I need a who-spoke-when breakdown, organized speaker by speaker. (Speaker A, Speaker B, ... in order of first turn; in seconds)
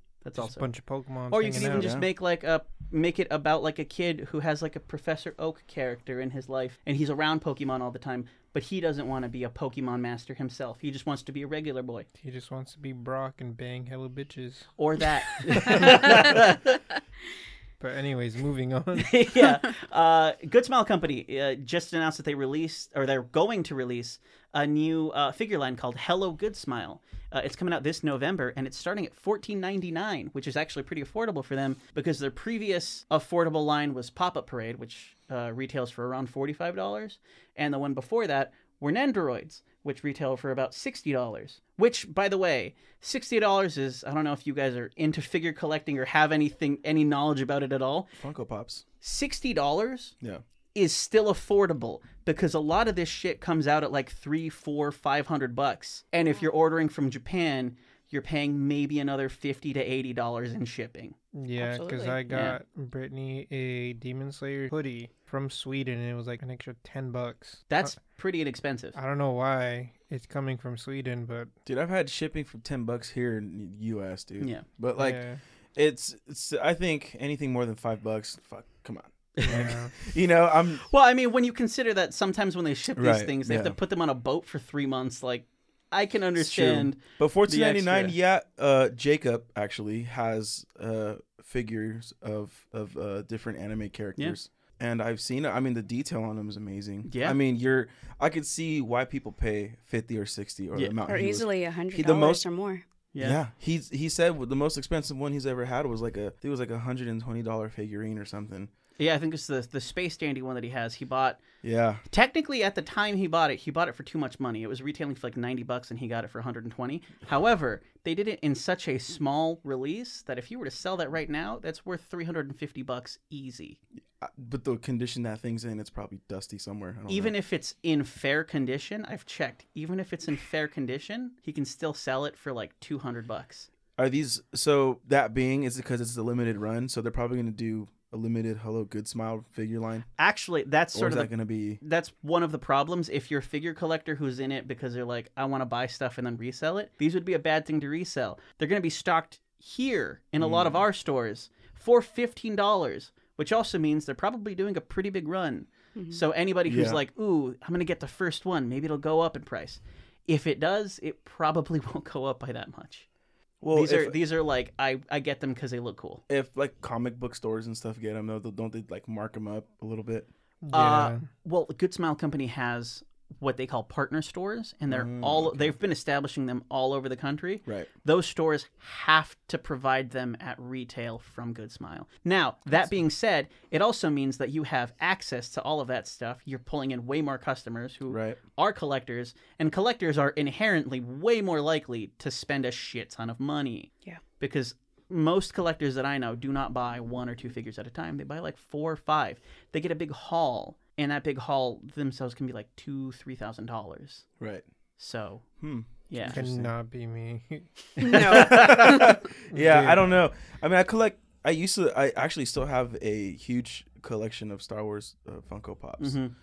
Speaker A: 0.2-0.7, 1.3-12.1, 14.8-16.8, 19.0-48.1, 49.0-50.1, 50.7-61.1, 62.3-62.6, 67.7-69.0, 74.4-74.6, 79.4-79.7, 80.8-88.1, 97.0-97.4, 103.1-103.4, 109.0-111.4, 112.1-123.8, 127.1-133.7, 140.2-163.1, 163.7-166.2, 170.7-204.3, 205.0-205.5, 206.1-206.4, 208.1-209.1, 216.0-216.3
Speaker B: 0.3-1.9, 12.2-14.7, 15.3-16.4, 17.8-19.4, 61.3-67.9, 68.9-71.5, 75.0-75.4, 79.4-79.9, 170.6-171.3, 206.2-208.7, 209.5-210.2
Speaker C: 1.6-2.1, 48.2-48.8, 71.7-75.2, 75.7-80.8, 83.0-83.8, 86.3-102.4, 103.2-108.7, 111.6-112.0, 124.2-127.3, 134.0-140.1, 140.9-141.8, 150.4-150.8, 156.7-157.0, 163.6-164.2, 166.3-170.3, 174.9-175.8, 188.1-188.4, 204.4-204.7, 205.6-206.7, 208.1-216.2
Speaker D: 61.6-62.2, 101.0-102.8, 155.9-156.2, 208.0-209.1